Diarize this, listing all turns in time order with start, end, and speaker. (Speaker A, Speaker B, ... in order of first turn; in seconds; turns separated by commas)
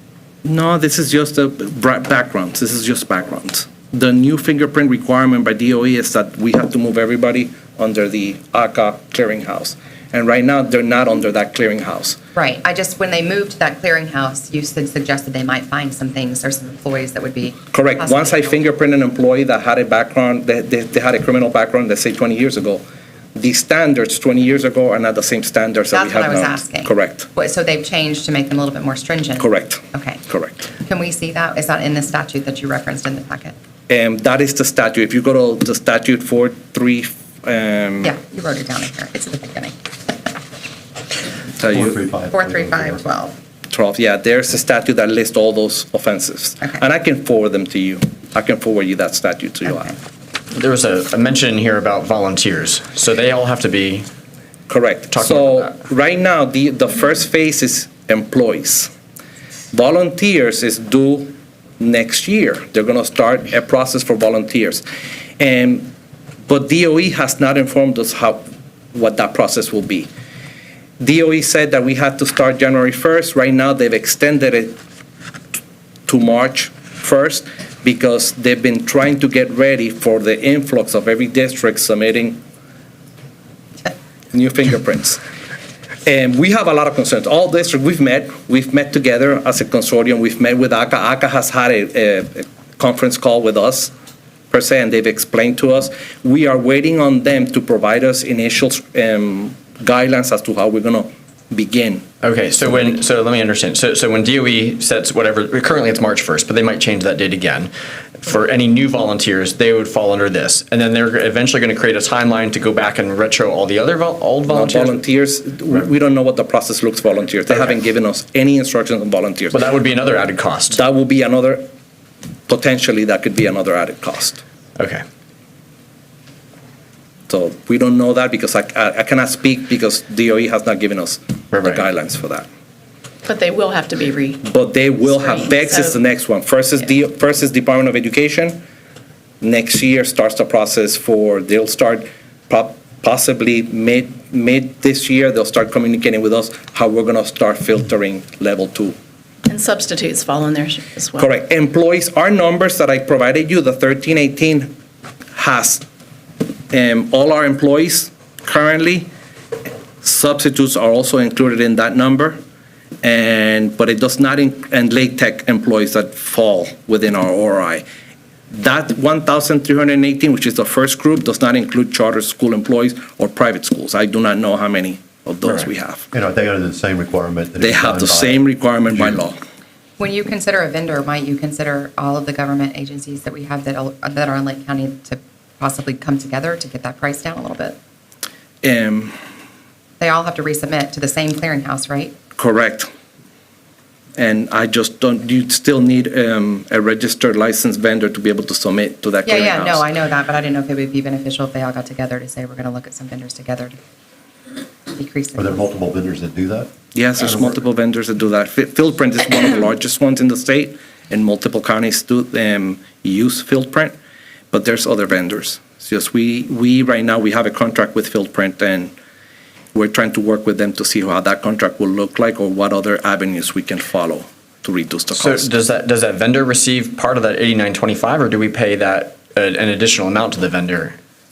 Speaker A: 0.4-12.2, Speaker B: 12.3-18.6, Speaker A: 17.7-22.8, Speaker A: 23.3-27.3, Speaker B: 25.9-30.2, Speaker A: 29.4-30.6, Speaker B: 30.8-33.5, Speaker A: 33.9-38.1, Speaker B: 38.0-39.8, Speaker A: 41.6-42.0, Speaker C: 41.7-43.3, Speaker B: 42.3-43.3, Speaker A: 43.7-50.0, Speaker D: 50.5-54.0, Speaker A: 54.7-58.9, Speaker D: 55.1-55.7, Speaker A: 59.7-64.8, Speaker A: 65.4-65.9, Speaker A: 66.5-70.1, Speaker A: 71.0-74.8, Speaker A: 76.1-82.4, Speaker A: 84.3-85.2, Speaker A: 86.0-93.9, Speaker A: 94.5-102.0, Speaker D: 102.2-115.0, Speaker A: 114.5-119.7, Speaker D: 119.5-120.8, Speaker A: 120.7-121.6, Speaker A: 122.5-124.4, Speaker D: 124.8-125.0, Speaker A: 127.3-132.4, Speaker D: 131.5-131.8, Speaker E: 133.2-134.4, Speaker A: 134.4-138.6, Speaker E: 135.0-136.0, Speaker A: 139.4-148.9, Speaker E: 149.5-151.3, Speaker A: 151.2-154.7, Speaker A: 155.3-155.8, Speaker A: 156.7-159.1, Speaker A: 160.0-162.4, Speaker A: 163.0-167.8, Speaker A: 168.5-176.0, Speaker C: 176.1-179.2, Speaker A: 177.6-179.4, Speaker B: 180.0-187.8, Speaker A: 188.6-189.1, Speaker B: 190.0-192.2, Speaker A: 192.4-192.9, Speaker A: 194.2-199.8, Speaker B: 199.2-203.8, Speaker B: 204.9-205.6, Speaker C: 205.3-207.5, Speaker A: 206.9-213.9, Speaker A: 214.5-218.9, Speaker A: 219.7-225.5, Speaker D: 225.2-231.0